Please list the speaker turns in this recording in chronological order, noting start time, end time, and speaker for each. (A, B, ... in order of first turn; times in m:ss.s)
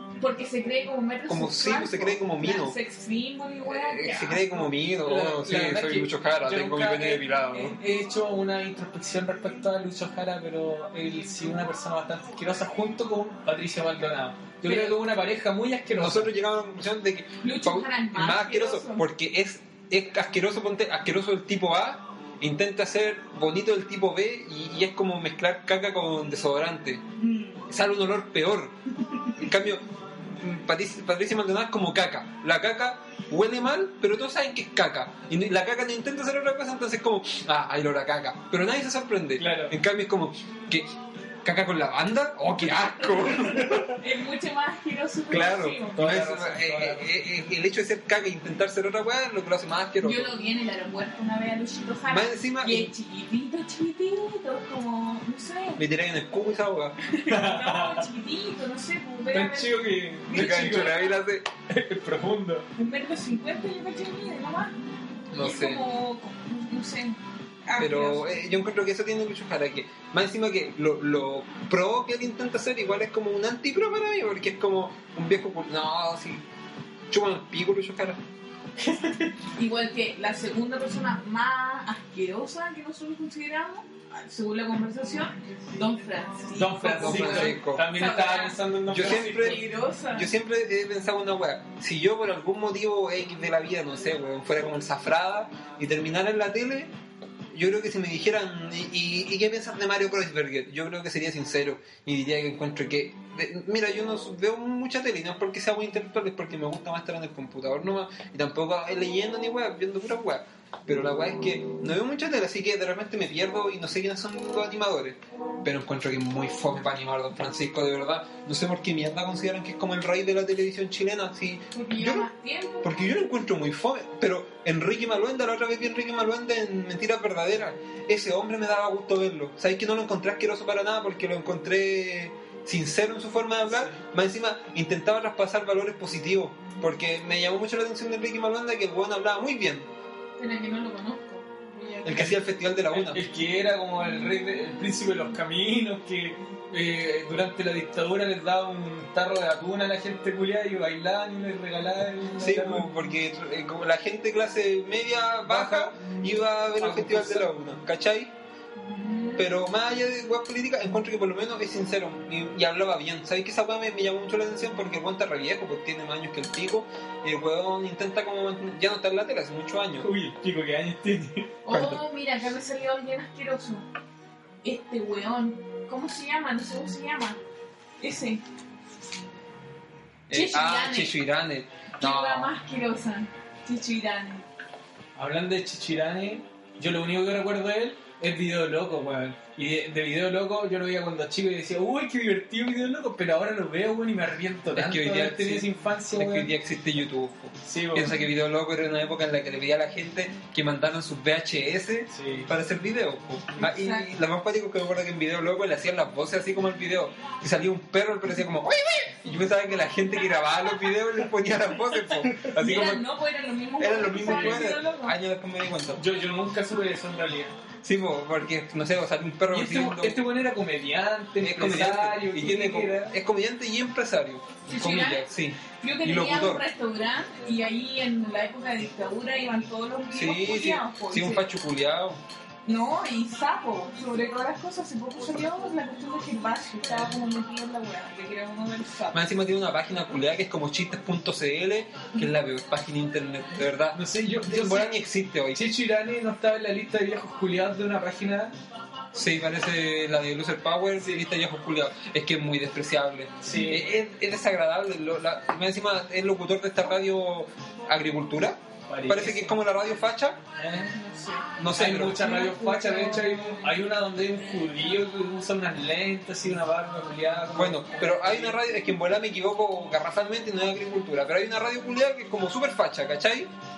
0:00.2-0:04.7 A
0:01.3-0:02.8 B
0:03.6-0:07.8 B
0:05.0-0:16.3 C
0:14.6-0:14.9 A
0:16.0-0:27.0 B
0:17.4-0:19.0 A
0:27.2-0:27.6 A
0:27.7-0:28.8 B
0:29.4-0:29.8 B
0:30.4-0:40.9 B
0:39.4-0:39.8 C
0:41.4-0:43.9 B
0:43.5-0:44.0 C
0:43.9-0:46.0 A
0:45.3-0:50.3 B
0:46.0-0:47.2 C
0:50.0-0:55.8 A
0:52.1-0:52.9 B
0:55.8-0:57.0 B
0:57.0-1:01.1 A
0:57.3-0:58.1 C
0:59.3-1:01.0 C
1:00.3-1:01.4 B
1:01.7-1:02.7 C
1:02.8-1:04.7 A
1:05.3-1:05.8 B
1:05.4-1:08.4 A
1:07.8-1:16.4 B
1:17.1-1:18.2 B
1:18.8-1:19.3 C
1:19.6-1:30.3 A
1:26.5-1:29.6 C
1:26.8-1:27.8 B
1:28.9-1:36.9 B
1:37.5-2:02.3 B
2:01.7-2:03.1 A
2:02.8-2:19.9 B
2:20.4-2:22.3 A
2:22.0-2:23.2 B
2:22.9-2:32.9 C
2:32.4-2:38.3 B
2:35.4-2:37.5 C
2:38.8-2:39.5 A
2:39.4-2:50.1 B
2:50.0-2:51.5 C
2:51.6-2:53.9 A
2:51.7-2:52.0 B
2:54.6-2:57.4 A
2:58.0-2:58.4 A
3:00.3-3:01.2 A
3:00.3-3:02.5 B
3:02.0-3:04.4 A
3:05.1-3:16.5 C
3:14.8-3:33.0 B
3:17.6-3:18.2 C
3:22.1-3:22.5 C
3:23.6-3:24.1 A
3:32.2-3:32.8 C
3:32.5-3:35.2 A
3:33.8-3:36.0 B
3:34.2-3:34.6 C
3:36.0-3:37.6 C
3:37.8-3:40.2 B
3:39.5-3:43.1 C
3:41.4-3:46.6 B
3:44.7-3:51.4 A
3:50.1-3:52.2 B
3:52.6-3:59.2 A
3:59.1-4:05.6 B
4:03.9-4:05.0 C
4:05.5-4:08.5 C
4:09.1-4:20.4 B
4:13.4-4:13.8 C
4:18.9-4:19.6 C
4:20.6-4:21.0 C
4:20.9-4:21.5 A
4:21.6-4:22.3 B
4:21.7-4:28.6 C
4:22.2-4:23.6 A
4:27.6-4:33.5 B